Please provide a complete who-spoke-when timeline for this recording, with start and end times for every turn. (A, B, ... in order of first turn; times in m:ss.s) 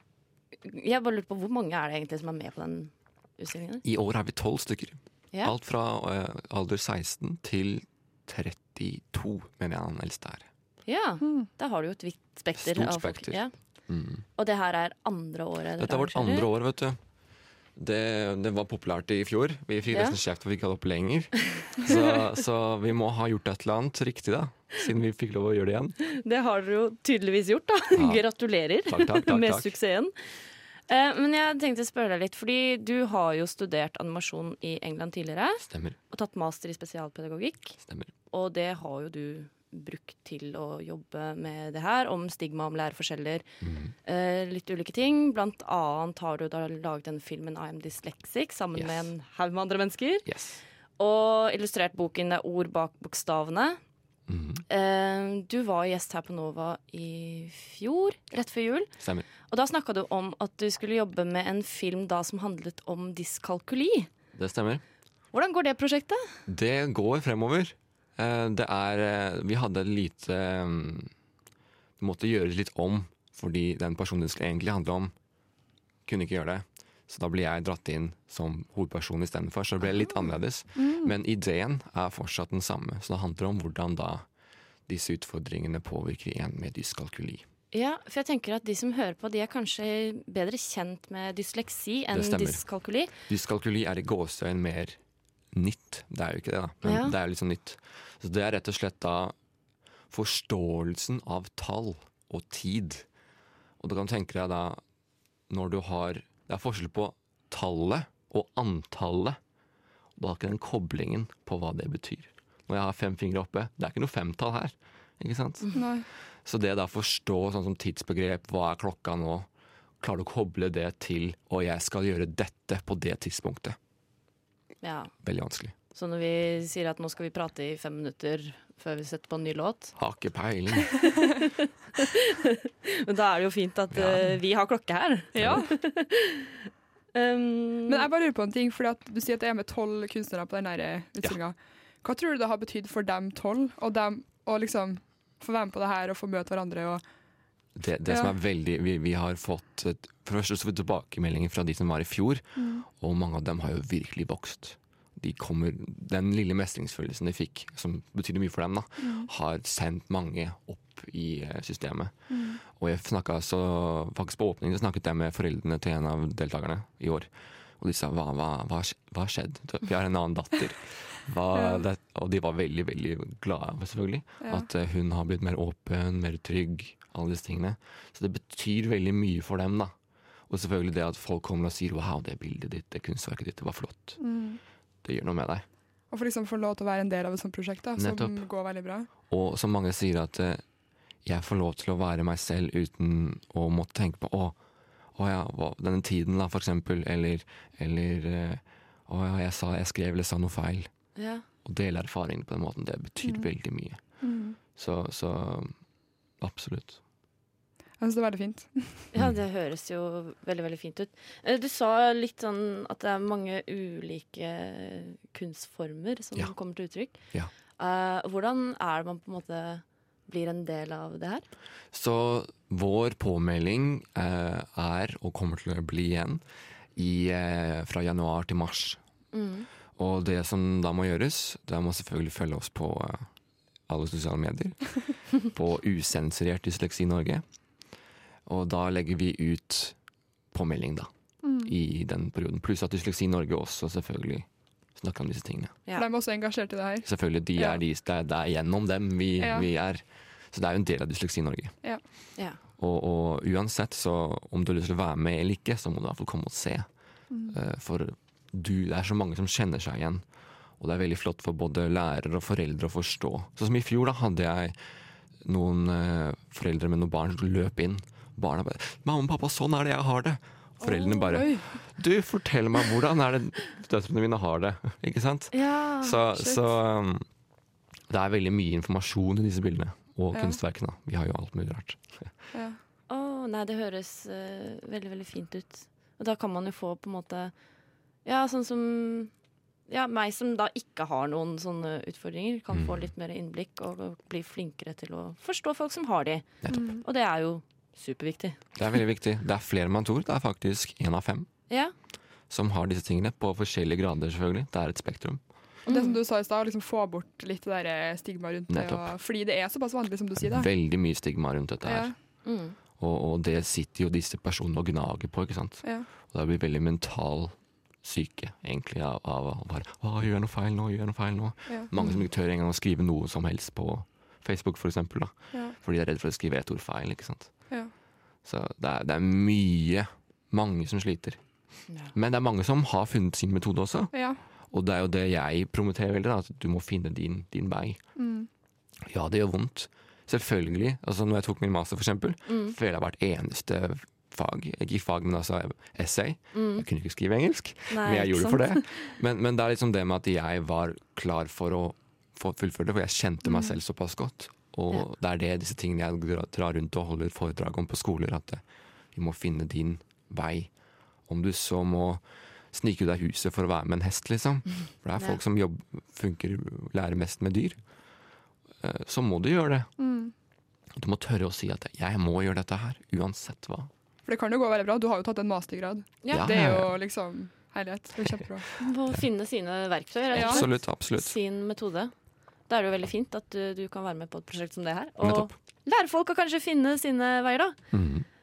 0:00.6-0:03.8 A
0:03.8-0:10.5 B
0:10.9-0:13.6 A
0:11.2-0:11.5 C
0:12.6-0:14.2 B
0:14.4-0:16.5 A
0:15.8-0:17.0 B
0:17.8-0:26.0 B
0:19.9-0:20.2 A
0:26.1-0:30.1 A
0:28.0-0:28.2 B
0:28.9-0:29.7 B
0:30.9-0:37.8 A
0:35.6-0:36.0 B
0:37.8-0:38.1 B
0:38.3-0:43.4 A
0:43.6-0:44.0 B
0:44.0-0:50.3 A
0:48.7-0:49.1 B
0:50.2-0:50.6 B
0:51.0-0:53.8 A
0:54.3-0:54.6 B
0:54.7-0:58.9 A
0:59.0-0:59.3 B
0:59.5-1:04.1 A
1:04.4-1:04.8 B
1:05.3-1:06.3 A
1:06.5-1:11.1 B
1:12.0-1:15.1 B
1:16.0-1:24.2 B
1:20.8-1:21.1 C
1:24.9-1:27.4 B
1:27.7-1:33.1 A
1:32.1-1:32.6 B
1:33.3-1:35.0 B
1:35.5-1:39.4 B
1:36.8-1:37.1 A
1:40.1-1:43.1 B
1:43.8-1:44.8 B
1:45.5-1:49.4 B
1:50.2-1:55.9 B
1:55.8-1:56.1 C
1:56.4-1:59.5 B
2:00.0-2:03.8 B
2:04.8-2:05.1 A
2:05.2-2:05.7 B
2:05.9-2:10.0 A
2:10.0-2:10.9 B
2:11.0-2:16.5 A
2:13.9-2:14.4 B
2:15.3-2:15.7 C
2:15.4-2:15.6 B
2:17.1-2:18.1 A
2:17.9-2:27.0 C
2:27.8-2:59.9 B
2:28.1-2:28.4 C
2:32.6-2:32.8 C
2:39.0-2:39.3 C
2:42.3-2:42.6 C
2:51.5-2:51.8 C
2:54.4-2:54.7 C
3:00.5-3:04.3 B
3:04.2-3:04.6 C
3:05.0-3:05.7 B
3:06.1-3:09.1 C
3:08.0-3:08.5 B
3:09.3-3:10.6 B
3:11.2-3:14.6 B
3:15.1-3:20.9 B
3:21.2-3:21.4 A
3:21.6-3:24.2 B
3:23.2-3:23.5 C
3:24.2-3:24.6 C
3:24.8-3:25.8 B
3:26.4-3:27.0 B
3:28.0-3:29.1 C
3:29.1-3:37.2 A
3:37.8-3:41.5 A
3:41.9-3:46.4 B
3:47.0-3:49.0 B
3:49.3-3:49.7 A
3:50.0-3:53.3 B
3:53.9-3:57.4 B
3:58.5-4:00.0 B
4:00.5-4:05.8 B
4:01.4-4:01.7 C
4:06.0-4:07.8 C
4:07.0-4:11.9 B
4:09.4-4:09.7 C
4:12.8-4:16.9 B
4:17.3-4:17.6 C
4:17.5-4:20.2 B
4:20.8-4:24.8 B
4:25.4-4:37.3 B
4:30.8-4:31.7 C
4:35.5-4:36.2 A
4:36.4-4:36.6 C
4:38.1-4:42.4 B
4:40.3-4:40.6 C
4:42.5-4:42.8 C
4:43.1-4:47.5 A
4:48.2-4:49.3 A
4:49.9-4:58.6 A
4:52.7-4:53.1 B
4:56.7-4:57.0 C
4:58.8-5:01.5 B
5:02.5-5:05.4 B
5:05.9-5:06.2 A
5:05.9-5:10.7 C
5:08.7-5:09.1 B
5:10.4-5:12.2 B
5:11.8-5:12.1 C
5:12.4-5:12.8 A
5:13.0-5:27.8 B
5:22.0-5:22.2 A
5:28.4-5:38.1 B
5:34.1-5:34.4 C
5:38.2-5:38.5 C
5:39.0-6:00.7 B
5:42.5-5:42.8 A
5:46.5-5:46.8 A
5:47.9-5:49.2 A
6:01.3-6:07.8 B
6:08.8-6:09.9 B
6:10.0-6:10.3 C
6:10.9-6:13.9 B
6:14.3-6:18.8 C
6:16.2-6:16.5 A
6:16.3-6:16.9 B
6:18.8-6:22.1 A
6:20.3-6:21.4 B
6:20.4-6:20.6 C
6:22.7-6:27.8 A
6:25.2-6:25.5 B
6:27.9-6:28.3 B